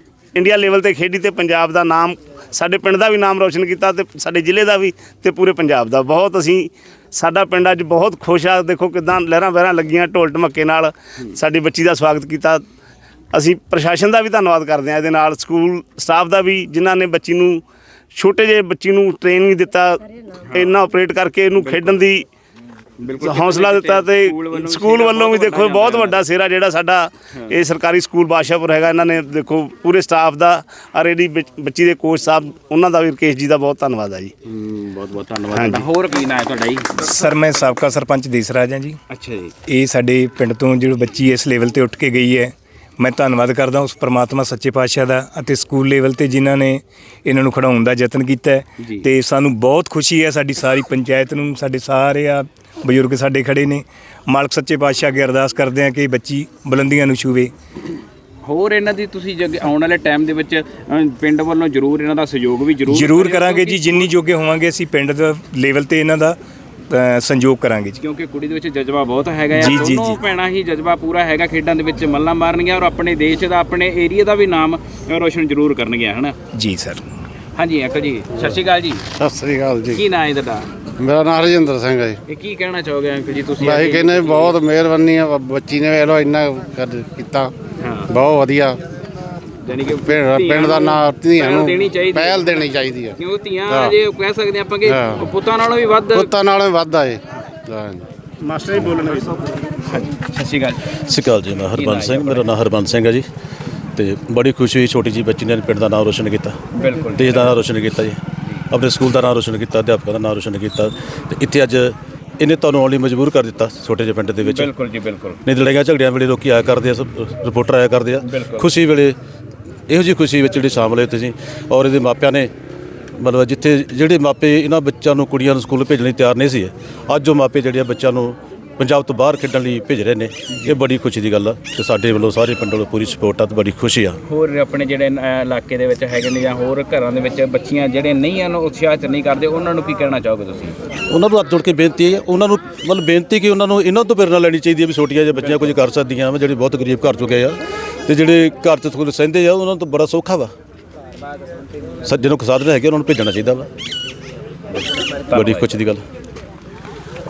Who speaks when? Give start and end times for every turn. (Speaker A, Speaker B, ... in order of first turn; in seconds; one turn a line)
Speaker A: 0.3-12.6
Speaker A: 13.3-17.6
Speaker A: 18.1-20.0
Speaker B: 20.5-20.8
Speaker A: 20.5-22.2
Speaker B: 21.6-22.0
Speaker B: 23.0-26.3
Speaker A: 23.2-34.3
Speaker B: 34.5-37.2
Speaker A: 35.5-35.9
Speaker C: 37.0-39.0
Speaker B: 39.1-39.5
Speaker C: 39.7-57.5
Speaker B: 48.8-49.1
Speaker B: 58.4-64.1
Speaker C: 62.9-66.4
Speaker C: 66.9-68.0
Speaker B: 68.0-76.4
Speaker C: 69.5-70.2
Speaker C: 76.6-77.0
Speaker B: 77.6-79.0
Speaker D: 79.2-80.0
Speaker B: 79.9-80.7
Speaker D: 81.0-82.2
Speaker B: 82.3-84.6
Speaker D: 83.6-87.5
Speaker B: 87.8-88.1
Speaker D: 88.1-88.8
Speaker B: 89.6-96.3
Speaker D: 90.1-93.2
Speaker D: 93.7-94.0
Speaker D: 94.9-95.3
Speaker D: 96.1-98.1
Speaker A: 98.4-99.4
Speaker B: 99.8-101.0
Speaker E: 101.1-103.3
Speaker B: 101.7-102.5
Speaker E: 104.0-106.6
Speaker B: 106.8-107.6
Speaker E: 107.2-108.2
Speaker E: 108.7-114.7
Speaker B: 114.4-115.4
Speaker E: 115.5-119.2
Speaker B: 118.2-118.7
Speaker E: 119.9-122.5
Speaker E: 123.2-134.2
Speaker B: 130.5-130.8
Speaker B: 134.3-140.8
Speaker E: 141.1-150.5
Speaker B: 145.4-145.8
Speaker E: 152.1-153.7
Speaker B: 154.7-155.7
Speaker E: 155.3-156.0